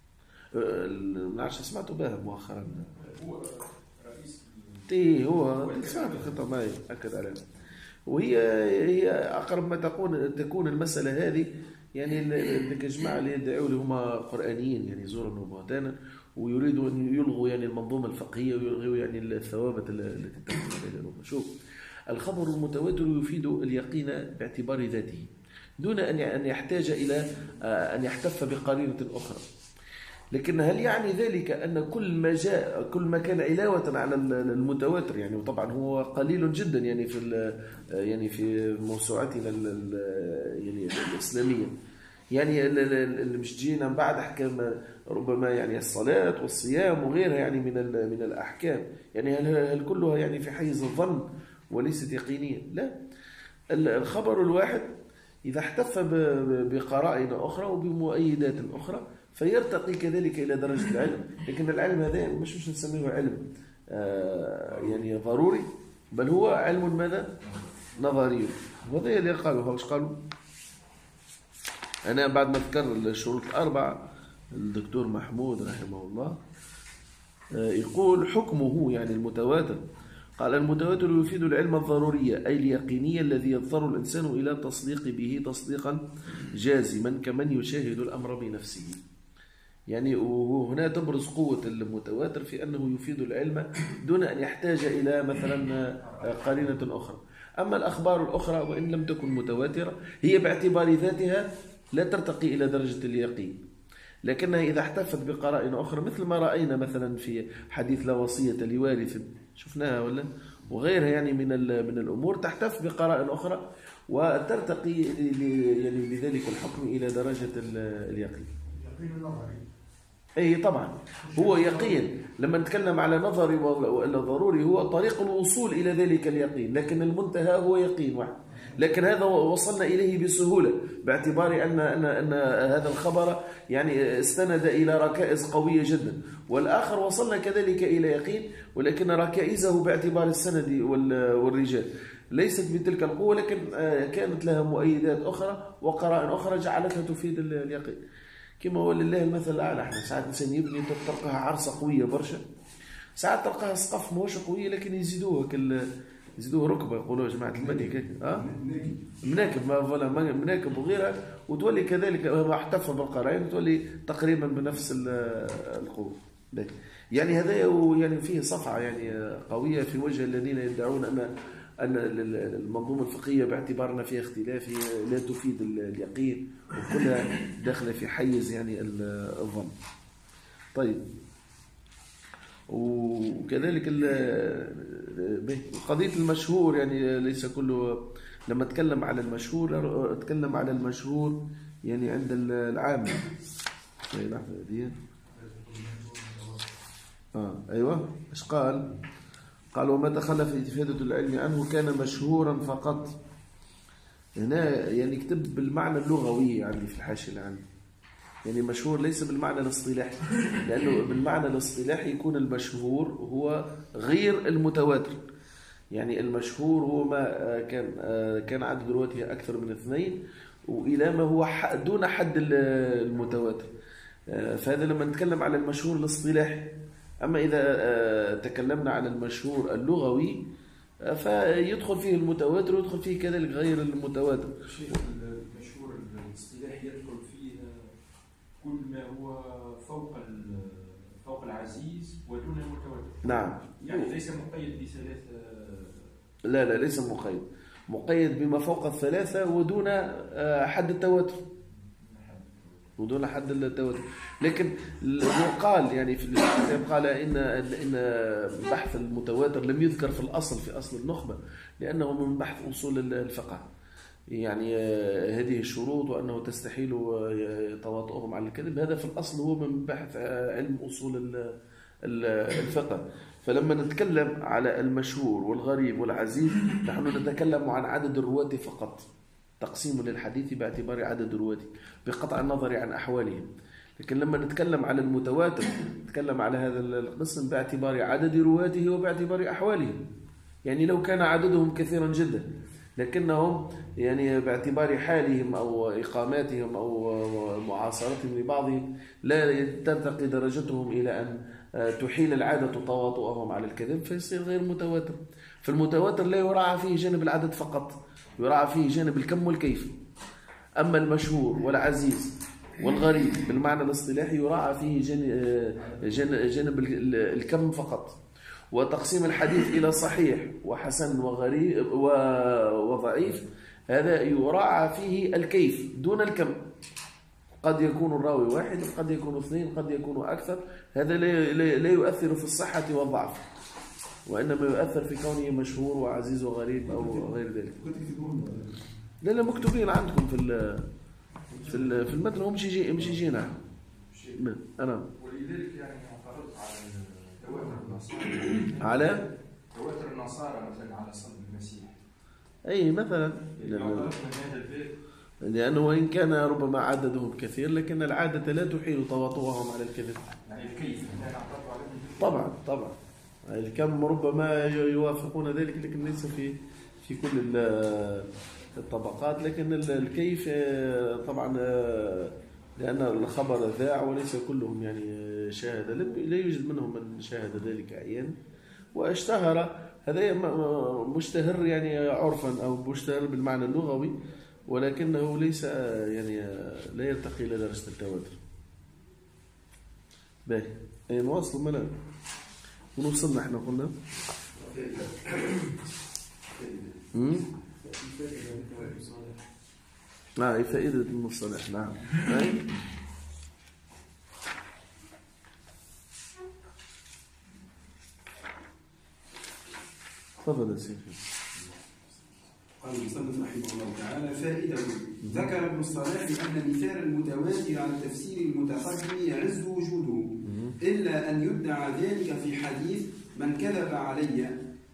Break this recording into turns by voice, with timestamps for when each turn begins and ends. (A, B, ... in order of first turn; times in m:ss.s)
0:00.5-0:03.0 A
0:03.0-0:06.4 B
0:04.9-0:07.5 A
0:08.1-0:21.5 A
0:22.1-0:25.3 A
0:25.8-0:29.4 A
0:30.3-0:41.8 A
0:42.3-0:52.9 A
0:53.7-0:54.9 A
0:55.5-1:07.4 A
1:08.0-1:10.2 A
1:12.1-1:16.4 A
1:17.5-1:19.8 A
1:20.4-1:29.0 A
1:29.9-1:43.6 A
1:36.1-1:36.7 C
1:44.3-1:58.5 A
1:58.8-1:59.6 C
2:00.4-2:28.0 A
2:01.2-2:02.0 C
2:28.6-2:32.4 A
2:33.2-2:35.8 A
2:36.4-2:38.5 A
2:37.6-2:39.0 C
2:39.2-2:51.3 A
2:51.8-2:59.7 A
3:00.8-3:01.0 A
3:02.7-3:13.2 A
3:14.1-3:15.0 A
3:15.3-3:16.7 C
3:17.4-3:18.9 A
3:19.7-3:23.2 A
3:24.4-3:27.6 A
3:28.4-3:35.2 A
3:35.9-3:43.7 A
3:44.3-3:46.7 A
3:47.2-3:50.4 A
3:51.1-3:54.6 A
3:54.6-3:57.9 B
3:58.6-4:06.1 B
4:03.2-4:04.1 A
4:06.5-4:11.4 A
4:11.8-4:12.9 B
4:13.0-4:23.6 A
4:24.3-4:39.1 A
4:39.6-4:50.0 A
4:50.7-4:52.5 A
4:53.0-5:09.9 A
5:10.8-5:18.2 A
5:18.7-5:26.6 A
5:27.6-5:33.4 A
5:34.3-5:37.9 A
5:36.9-5:37.2 C
5:37.8-5:38.8 C
5:39.2-5:40.9 A
5:41.6-5:43.6 A
5:41.6-5:42.0 C
5:44.0-5:44.4 B
5:44.4-5:45.1 A
5:45.2-5:52.0 B
5:48.8-5:49.2 A
5:52.7-5:54.1 A
5:53.6-5:55.0 B
5:55.4-6:00.2 A
6:00.5-6:02.5 B
6:02.2-6:18.4 A
6:19.0-6:24.2 A
6:24.7-6:28.4 A
6:30.5-6:31.9 A
6:33.0-6:33.9 A
6:34.6-6:35.7 D
6:36.5-6:37.0 D
6:37.1-6:37.5 A
6:37.9-6:39.2 C
6:40.4-6:42.7 A
6:50.4-6:51.3 A
6:52.8-7:00.3 D
6:55.2-6:55.5 A
7:00.4-7:00.8 A
7:00.8-7:04.6 D